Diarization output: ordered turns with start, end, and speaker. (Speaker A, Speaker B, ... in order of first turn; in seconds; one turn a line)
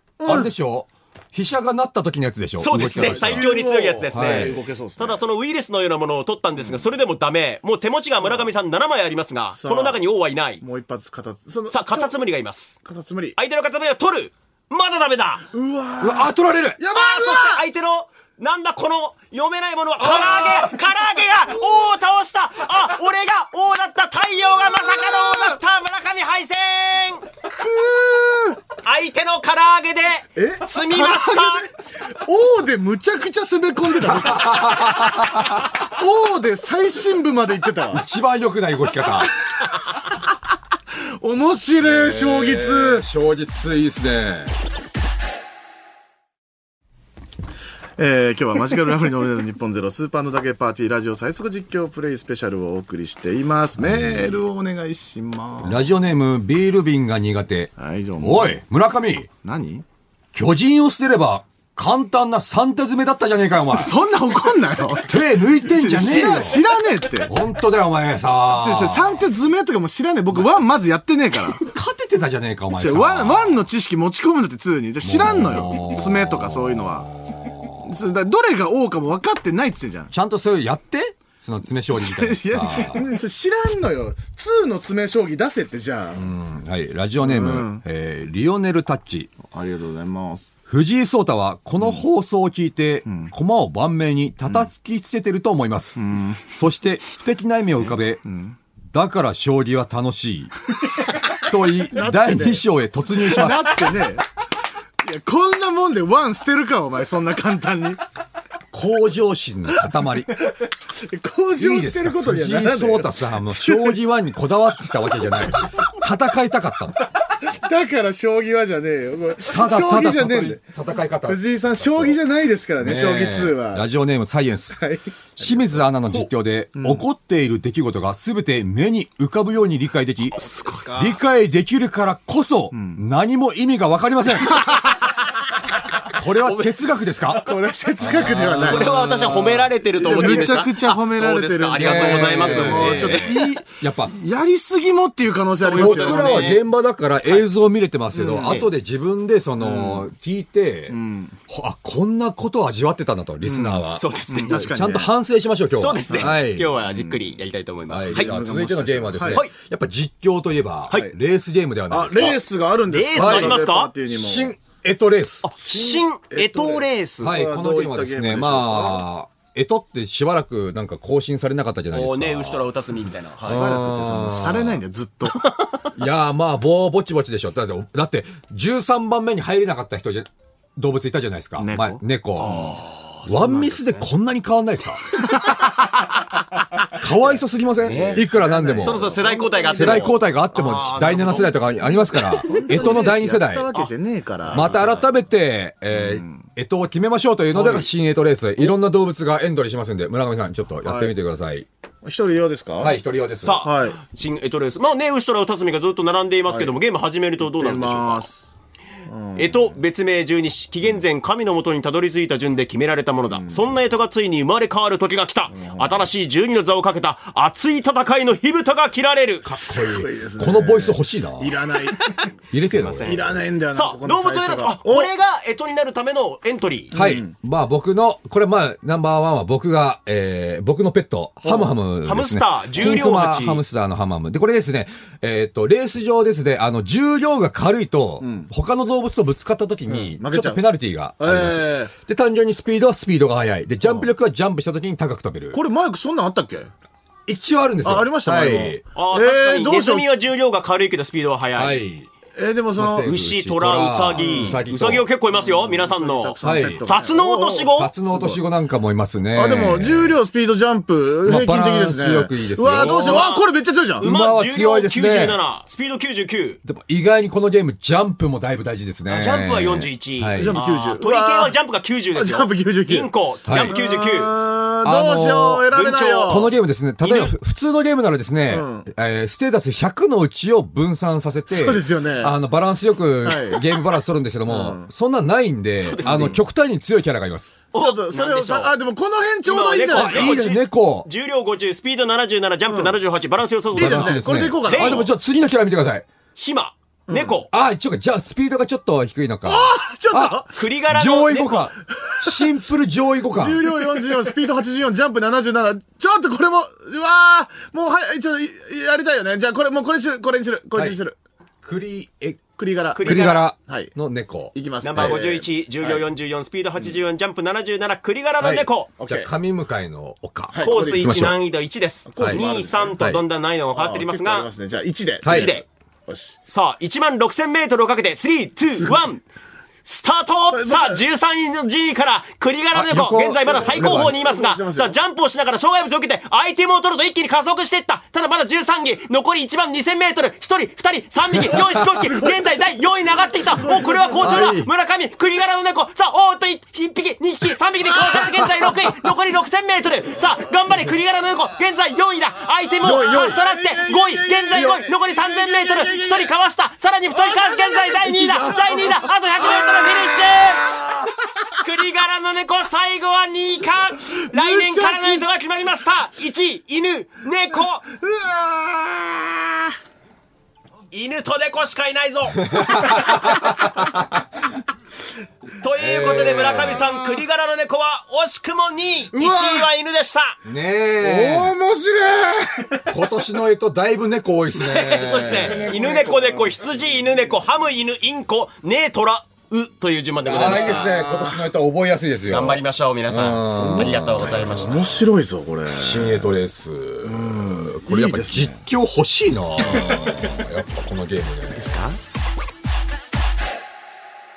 Speaker A: 0.2-0.5
Speaker B: 0.3-3.5
Speaker C: 2.6-10.6
Speaker A: 2.8-5.2
Speaker B: 4.1-4.6
Speaker A: 9.6-10.0
Speaker A: 10.6-12.2
Speaker C: 11.7-12.8
Speaker A: 12.8-13.4
Speaker C: 13.4-15.4
Speaker A: 15.5-17.6
Speaker B: 16.0-16.8
Speaker C: 16.9-27.3
Speaker B: 20.0-20.7
Speaker A: 24.7-25.6
Speaker A: 27.5-28.6
Speaker C: 28.8-31.7
Speaker A: 30.4-38.0
Speaker B: 34.0-35.7
Speaker B: 37.9-39.3
Speaker A: 41.2-43.0
Speaker B: 41.8-44.6
Speaker A: 48.0-55.9
Speaker B: 53.8-54.5
Speaker B: 55.6-59.3
Speaker A: 57.8-58.6
Speaker A: 59.4-59.9
Speaker B: 60.3-64.0
Speaker A: 63.7-67.3
Speaker B: 65.1-66.7
Speaker B: 67.3-69.3
Speaker A: 68.5-71.7
Speaker B: 71.6-73.7
Speaker A: 72.8-77.1
Speaker B: 75.0-77.9
Speaker A: 77.8-80.1
Speaker B: 80.1-83.0
Speaker A: 81.9-86.3
Speaker B: 86.2-89.3
Speaker A: 87.2-87.8
Speaker A: 89.4-90.5
Speaker B: 90.7-98.2
Speaker A: 93.1-93.3
Speaker A: 96.0-96.4
Speaker A: 98.2-98.6
Speaker B: 98.9-100.5
Speaker B: 101.3-103.9
Speaker A: 101.9-104.2
Speaker A: 105.0-108.0
Speaker B: 108.7-110.3
Speaker A: 111.0-114.0
Speaker B: 111.6-117.0
Speaker A: 117.4-120.6
Speaker B: 119.5-122.2
Speaker A: 121.2-123.8
Speaker B: 122.8-124.8
Speaker A: 124.7-127.0
Speaker B: 125.4-134.8
Speaker C: 130.3-131.2
Speaker A: 132.7-133.0
Speaker B: 136.1-139.7
Speaker C: 136.4-136.7
Speaker A: 137.4-139.1
Speaker C: 138.6-143.3
Speaker A: 140.0-146.6
Speaker B: 141.8-144.1
Speaker C: 145.6-146.6
Speaker B: 145.8-151.0
Speaker A: 148.1-148.6
Speaker A: 149.6-150.1
Speaker A: 150.9-151.4
Speaker B: 151.5-156.8
Speaker A: 153.4-155.1
Speaker C: 153.9-154.7
Speaker C: 155.8-158.3
Speaker A: 156.1-156.4
Speaker A: 156.9-157.2
Speaker B: 157.9-162.4
Speaker A: 158.1-159.4
Speaker A: 161.9-164.5
Speaker C: 162.9-163.9
Speaker B: 163.1-165.5
Speaker C: 165.4-167.4
Speaker A: 165.6-169.0
Speaker B: 167.2-172.7
Speaker C: 171.9-173.6
Speaker B: 173.4-174.8
Speaker A: 173.4-175.5
Speaker B: 175.9-182.7
Speaker A: 181.6-184.0
Speaker C: 182.5-182.8
Speaker B: 183.3-185.2
Speaker B: 186.9-189.1
Speaker C: 187.8-188.3
Speaker A: 187.8-190.2
Speaker C: 188.8-193.0
Speaker B: 189.7-193.7
Speaker A: 192.4-195.1
Speaker B: 194.5-201.7
Speaker A: 195.9-196.5
Speaker A: 197.5-197.9
Speaker A: 200.8-201.1
Speaker A: 202.0-203.0
Speaker B: 202.8-203.7
Speaker C: 203.4-208.2
Speaker A: 203.6-204.0
Speaker A: 206.5-206.7
Speaker A: 207.5-208.5
Speaker A: 209.1-209.8
Speaker C: 209.4-219.6
Speaker A: 213.4-213.7
Speaker A: 215.5-216.1
Speaker B: 219.4-221.6
Speaker A: 219.6-222.2
Speaker B: 222.5-223.4
Speaker C: 222.7-226.9
Speaker A: 223.0-225.1
Speaker A: 226.9-227.3
Speaker B: 226.9-245.6
Speaker A: 231.4-231.7
Speaker C: 232.1-233.6
Speaker A: 238.2-238.5
Speaker A: 239.9-240.6
Speaker A: 241.2-241.9
Speaker A: 243.8-244.1
Speaker A: 245.5-246.7
Speaker B: 247.3-248.8
Speaker A: 247.8-250.1
Speaker C: 248.9-251.8
Speaker B: 251.6-252.1
Speaker A: 252.3-253.1
Speaker B: 252.8-255.1
Speaker C: 253.1-257.9
Speaker A: 254.2-254.6
Speaker A: 255.3-258.4
Speaker B: 256.4-256.8
Speaker B: 257.7-260.2
Speaker A: 259.3-264.1
Speaker B: 261.2-263.3
Speaker C: 262.7-263.5
Speaker C: 264.0-266.6
Speaker B: 264.0-265.4
Speaker B: 266.6-270.6
Speaker C: 269.1-274.3
Speaker A: 270.4-271.6
Speaker A: 272.1-276.5
Speaker B: 273.5-273.8
Speaker B: 274.8-275.7
Speaker C: 275.7-276.5
Speaker B: 276.3-287.6
Speaker C: 277.0-277.3
Speaker A: 278.5-278.9
Speaker A: 281.5-282.4
Speaker A: 283.2-283.9
Speaker A: 284.5-284.9
Speaker C: 285.8-286.4
Speaker A: 286.0-286.4
Speaker C: 287.7-288.7
Speaker A: 287.8-290.4
Speaker C: 289.5-295.1
Speaker B: 289.9-291.1
Speaker A: 292.7-293.0
Speaker A: 293.7-295.1
Speaker B: 293.7-296.1
Speaker C: 296.4-297.5
Speaker A: 297.1-297.4
Speaker B: 297.5-303.9
Speaker A: 299.4-300.5
Speaker C: 300.5-301.7
Speaker A: 302.0-302.3
Speaker A: 303.4-311.2
Speaker B: 311.6-312.4
Speaker A: 312.6-313.9
Speaker C: 312.9-313.4
Speaker B: 313.0-315.2
Speaker A: 314.5-316.1
Speaker C: 314.8-319.0
Speaker B: 318.4-321.4
Speaker A: 319.0-319.3
Speaker A: 320.5-321.3
Speaker C: 320.6-324.5
Speaker A: 322.1-323.0
Speaker B: 323.0-323.2
Speaker A: 323.7-326.4
Speaker B: 325.2-325.6
Speaker C: 325.3-325.6
Speaker C: 326.5-329.2
Speaker A: 328.7-329.0
Speaker C: 329.9-360.7
Speaker A: 330.5-331.0
Speaker B: 332.7-334.2
Speaker A: 333.4-335.0
Speaker B: 341.4-341.7
Speaker A: 341.5-342.6
Speaker A: 343.4-344.6
Speaker B: 344.2-344.7
Speaker B: 352.8-353.4
Speaker A: 352.8-356.3
Speaker A: 357.1-361.6
Speaker B: 358.0-358.9
Speaker B: 359.4-360.3
Speaker C: 361.6-367.9
Speaker A: 364.1-365.2
Speaker A: 368.0-369.2
Speaker C: 370.9-373.0
Speaker B: 372.5-374.2
Speaker C: 375.6-380.4
Speaker B: 375.8-376.9
Speaker A: 379.1-379.7
Speaker B: 380.5-381.5
Speaker A: 381.0-382.9
Speaker B: 382.9-385.8
Speaker C: 384.6-391.2
Speaker A: 385.2-386.6
Speaker B: 390.2-394.9
Speaker A: 390.5-391.3
Speaker C: 392.3-395.1
Speaker A: 393.6-396.3
Speaker B: 395.7-401.8
Speaker A: 397.0-398.6
Speaker C: 401.5-402.0